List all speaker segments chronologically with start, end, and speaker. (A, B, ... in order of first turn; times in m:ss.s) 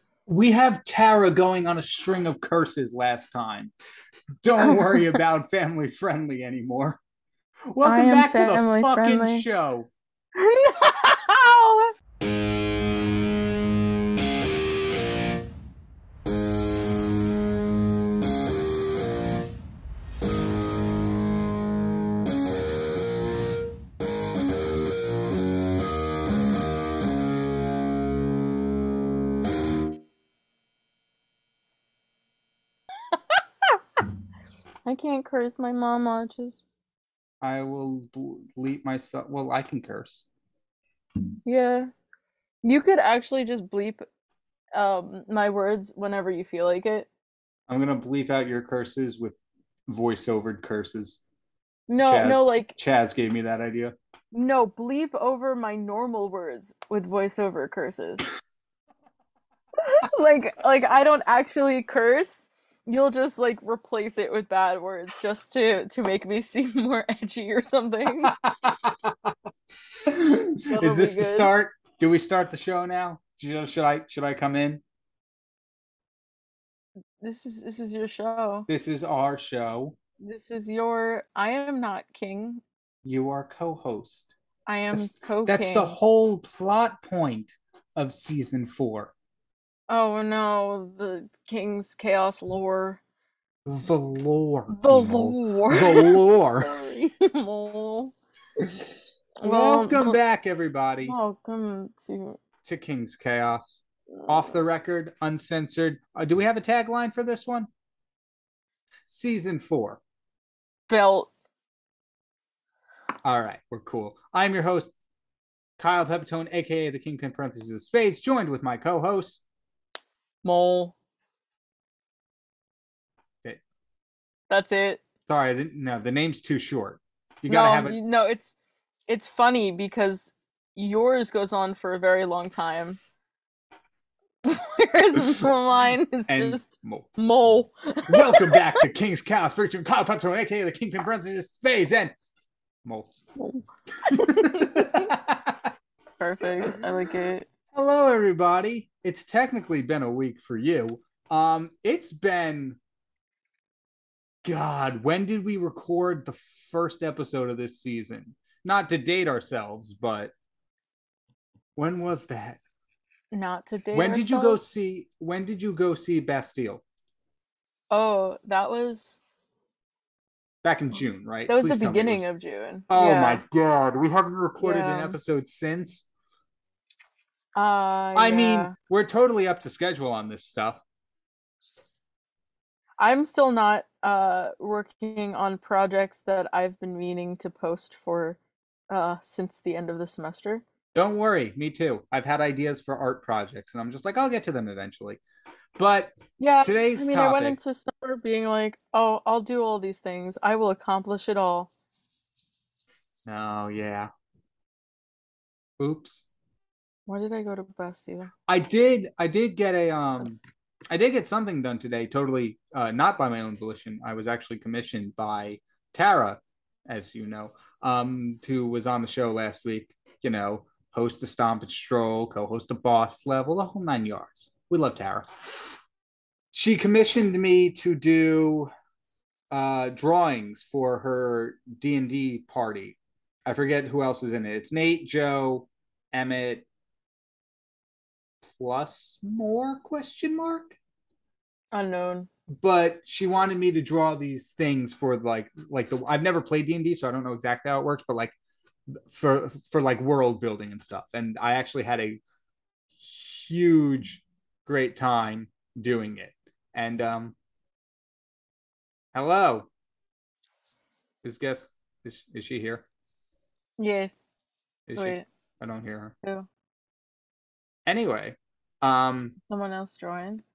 0:00.3-0:03.7 A
0:04.4-0:07.0 A
0:04.6-0:05.2 B
0:07.7-0:09.9 A
0:07.8-0:09.5 B
0:10.4-0:11.9 B
0:34.8-0:36.6 B
0:37.4-0:40.2 A
0:41.4-0:41.9 B
0:42.6-0:44.0 B
0:44.7-0:47.1 B
0:47.7-0:51.2 A
0:51.9-0:52.8 B
0:52.0-0:54.0 A
0:54.3-0:58.3 B
0:59.8-1:08.4 B
1:08.2-1:09.3 A
1:10.0-1:14.8 A
1:10.7-1:11.5 B
1:17.2-1:18.7 B
1:18.7-1:20.0 A
1:20.2-1:22.6 B
1:23.0-1:24.3 A
1:24.6-1:26.0 B
1:24.9-1:29.1 A
1:29.9-1:33.0 B
1:33.6-1:36.8 A
1:34.7-1:38.1 B
1:39.4-1:40.2 B
1:39.4-1:41.2 A
1:41.0-1:42.4 B
1:42.6-1:47.7 A
1:49.1-1:50.0 A
1:50.9-1:51.3 B
1:53.2-1:54.9 A
1:55.8-1:59.4 A
2:00.4-2:00.9 B
2:04.5-2:05.0 B
2:05.3-2:08.0 A
2:07.5-2:08.5 B
2:09.1-2:13.0 B
2:14.4-2:16.6 B
2:15.2-2:15.5 A
2:16.3-2:17.1 A
2:17.2-2:18.8 B
2:18.1-2:22.1 A
2:22.8-2:23.1 A
2:23.4-2:25.1 B
2:24.1-2:25.7 A
2:26.2-2:27.4 B
2:27.7-2:32.8 A
2:34.4-2:40.3 A
2:41.8-2:42.6 A
2:43.3-2:44.6 B
2:43.9-2:46.8 A
2:47.9-2:49.2 B
2:50.6-2:52.3 A
2:51.5-2:53.4 B
2:52.9-2:56.0 A
2:54.6-2:55.2 B
2:57.5-2:58.7 B
2:58.1-3:00.8 A
3:03.0-3:08.4 B
3:08.9-3:10.6 B
3:10.9-3:15.2 A
3:15.8-3:17.6 A
3:16.4-3:21.7 B
3:23.2-3:24.1 A
3:25.8-3:26.2 A
3:27.1-3:28.3 B
3:28.5-3:45.3 A
3:46.5-3:48.7 A
3:49.5-3:56.6 A
3:58.5-4:00.8 A
4:01.7-4:02.3 B
4:02.5-4:08.4 A
4:08.9-4:12.2 A
4:13.0-4:17.3 A
4:19.1-4:19.7 A
4:21.2-4:22.8 A
4:23.8-4:24.1 B
4:24.9-4:26.1 A
4:24.9-4:25.2 B
4:27.8-4:29.3 A
4:29.5-4:30.4 B